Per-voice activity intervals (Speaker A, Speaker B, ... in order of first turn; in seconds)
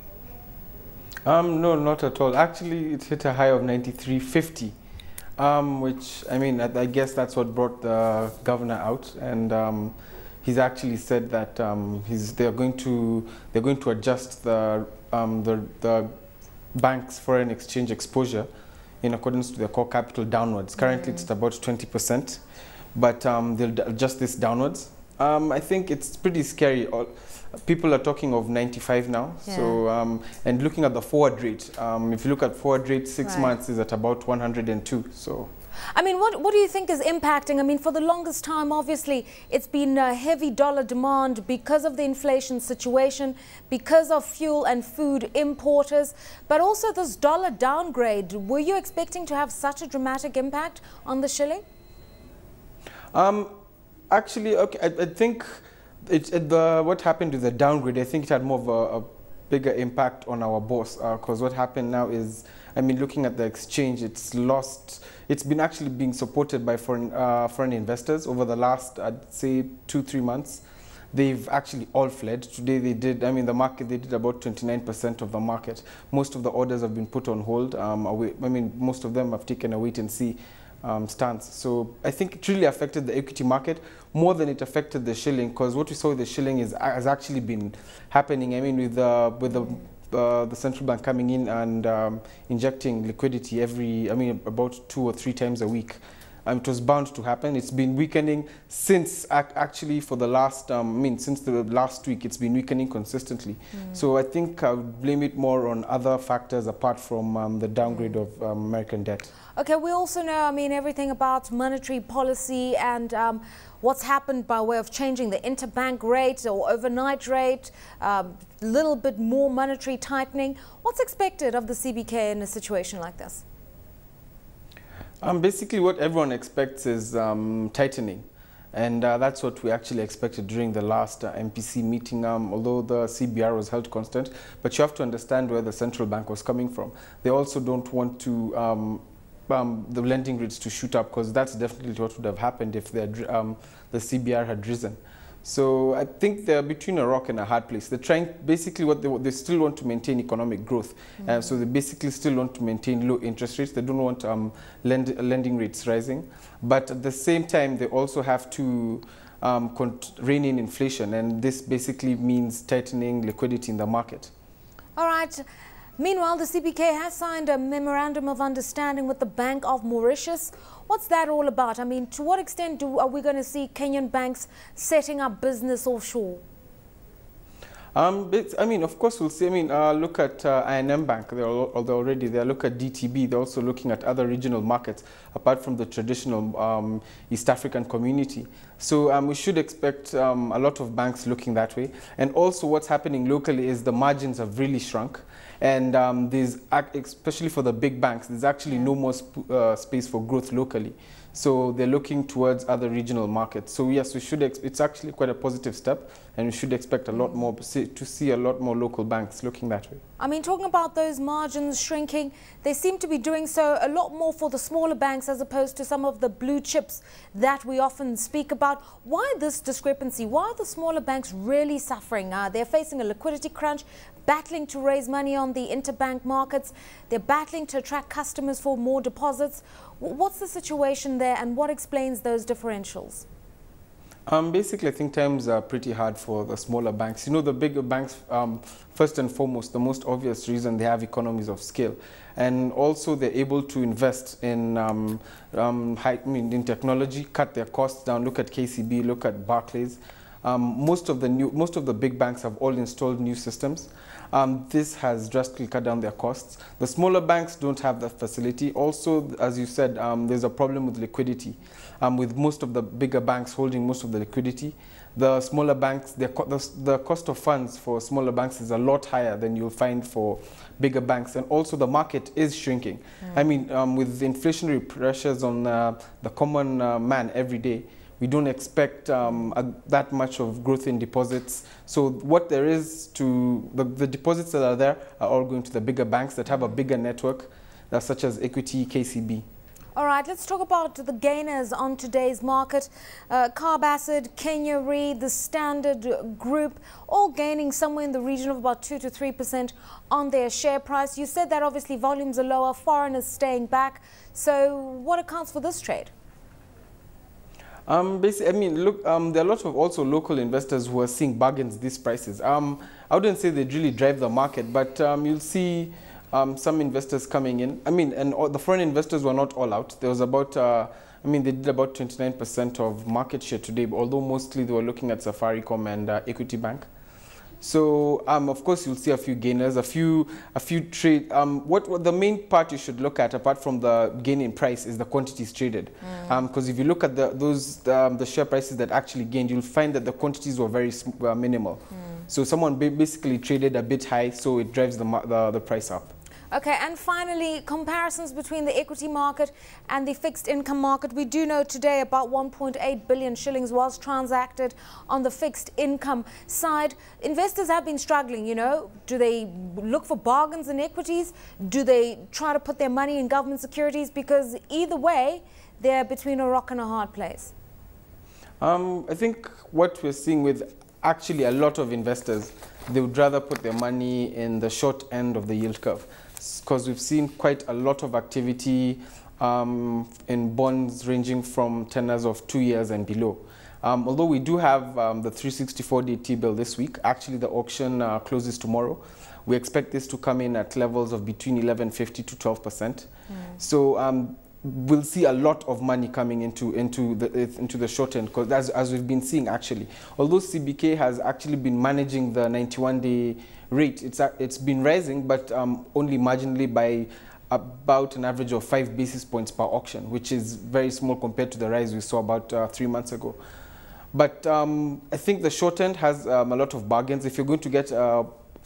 Speaker A: 1.2-4.7, 5.4-16.1, 16.7-18.5, 19.0-22.4, 22.9-35.5, 53.1-53.5, 54.1-109.3, 125.2-164.3, 177.9-210.0, 234.3-289.4, 307.9-326.9, 327.6-346.1, 368.6-393.1, 393.6-413.4, 414.1-418.3
Speaker B: 29.5-29.8, 33.2-33.5, 35.9-51.6, 109.5-123.4, 165.0-165.4, 166.0-176.4, 210.2-233.3, 289.9-306.1, 336.0-336.3, 346.5-367.5, 393.3-393.6